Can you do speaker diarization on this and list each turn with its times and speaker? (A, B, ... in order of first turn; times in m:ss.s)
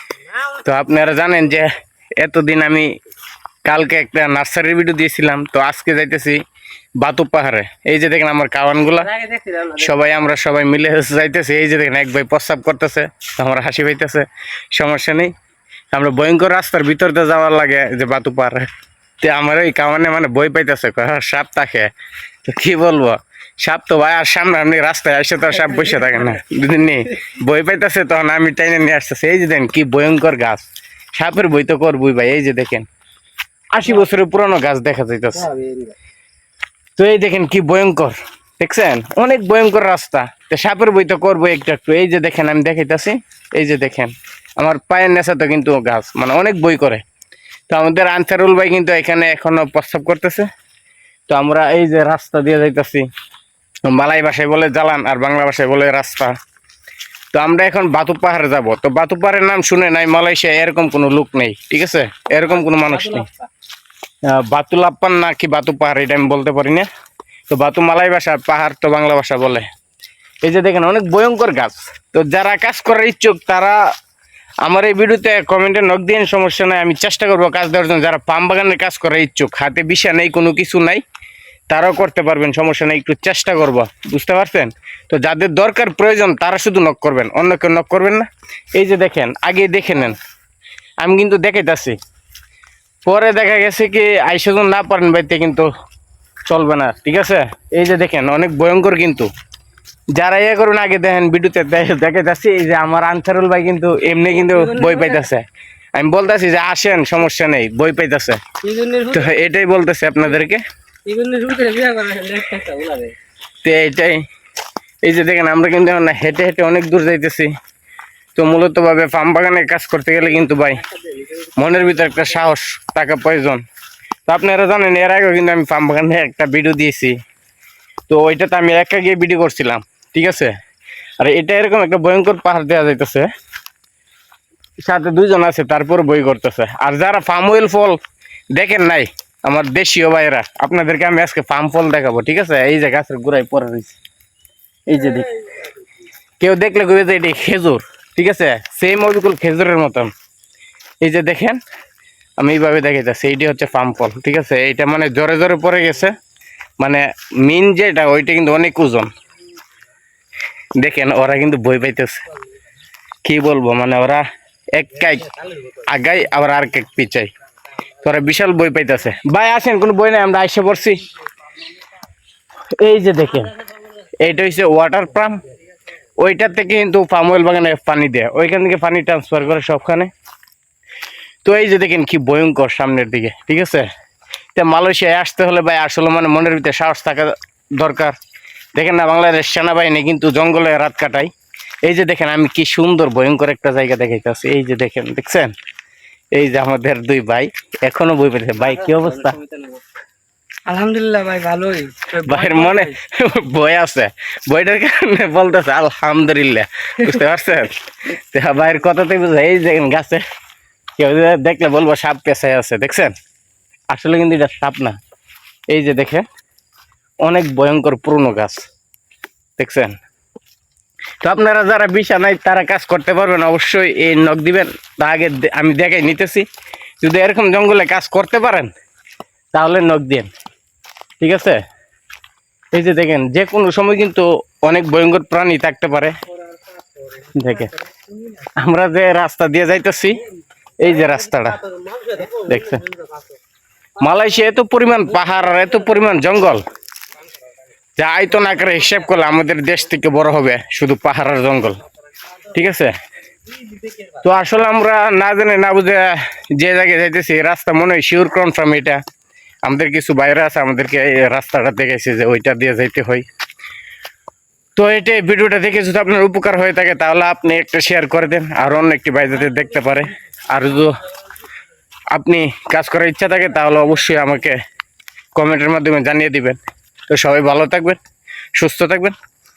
0:00.5-0:03.0 A
0:03.6-0:06.4 A
0:07.0-0:15.3 A
0:09.2-0:09.8 B
0:15.9-0:18.7 A
0:19.2-0:21.9 A
0:22.4-0:32.9 A
0:33.7-0:35.5 A
0:35.4-0:36.0 B
0:37.0-0:47.0 A
0:47.7-0:50.5 A
0:51.3-0:53.1 A
0:53.9-0:56.4 A
0:57.3-1:03.3 A
1:02.5-1:03.4 B
1:04.3-1:06.9 A
1:07.5-1:09.7 A
1:10.4-1:13.8 A
1:14.6-1:21.0 A
1:21.7-1:30.2 A
1:31.0-1:32.0 A
1:33.1-1:35.7 A
1:36.5-1:39.3 A
1:40.2-1:48.4 A
1:44.4-1:45.2 B
1:48.6-1:49.3 B
1:49.0-1:50.6 A
1:51.1-1:53.2 B
1:53.6-1:54.3 A
1:55.0-1:57.5 A
1:58.4-2:00.8 A
2:01.6-2:03.6 A
2:04.3-2:07.2 A
2:08.1-2:10.5 A
2:11.2-2:13.3 A
2:14.8-2:18.0 A
2:18.5-2:24.0 A
2:24.9-2:25.4 A
2:26.4-2:30.1 A
2:31.0-2:31.6 A
2:32.4-2:36.2 A
2:36.8-2:39.1 A
2:40.8-2:42.2 A
2:43.2-2:47.3 A
2:48.0-2:51.0 A
2:52.8-2:53.6 A
2:54.2-2:55.4 A
2:56.2-3:00.1 A
3:01.4-3:03.9 A
3:04.6-3:08.2 A
3:08.8-3:11.3 A
3:11.8-3:15.5 A
3:16.3-3:19.4 A
3:19.3-3:19.8 B
3:20.7-3:23.0 B
3:22.2-3:30.2 A
3:31.0-3:33.2 A
3:33.9-3:35.0 A
3:35.7-3:36.3 A
3:37.2-3:38.6 A
3:39.6-3:40.0 A
3:41.2-3:46.5 A
3:47.0-3:48.7 A
3:49.5-3:50.3 A
3:51.2-3:51.6 A
3:52.7-3:56.1 A
3:57.3-3:57.7 A
3:58.6-4:00.2 A
4:00.8-4:01.6 A
4:01.8-4:02.4 B
4:02.3-4:02.9 A
4:04.0-4:06.6 A
4:08.0-4:11.8 A
4:12.5-4:13.0 A
4:14.2-4:19.0 A
4:19.6-4:23.3 A
4:24.8-4:31.0 A
4:32.1-4:34.6 A
4:35.4-4:36.6 A
4:37.1-4:38.0 A
4:38.6-4:39.2 A